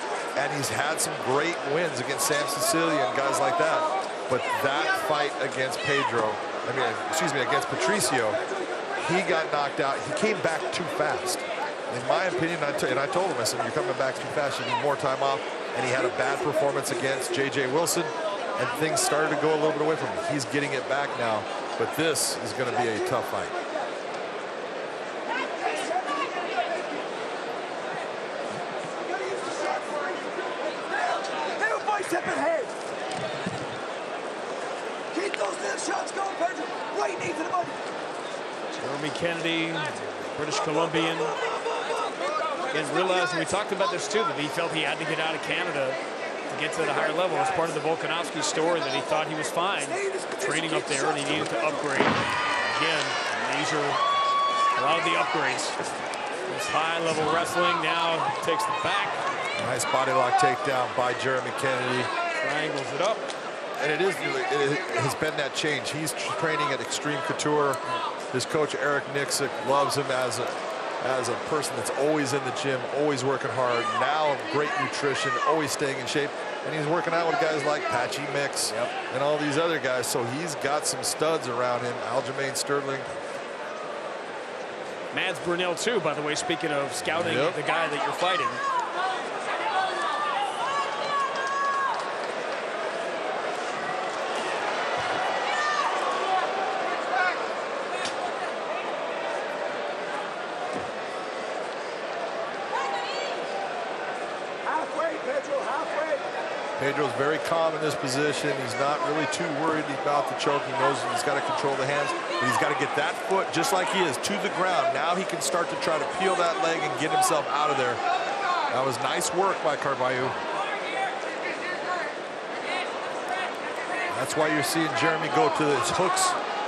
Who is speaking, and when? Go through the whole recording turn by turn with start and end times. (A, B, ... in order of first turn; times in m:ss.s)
0:00.3-0:08.4 A
0:09.0-0:23.6 A
0:25.8-0:26.8 B
0:29.2-0:32.7 B
0:35.1-0:37.7 B
0:38.7-0:41.4 C
0:42.7-0:54.0 C
0:54.8-0:55.8 C
0:56.5-0:59.2 C
0:59.6-1:02.1 A
1:02.4-1:03.3 C
1:03.8-1:07.8 A
1:08.3-1:23.1 A
1:25.1-1:28.6 C
1:27.1-1:27.6 A
1:44.9-1:45.8 B
1:46.8-1:58.0 A
1:58.7-2:00.4 A
2:04.1-2:06.4 A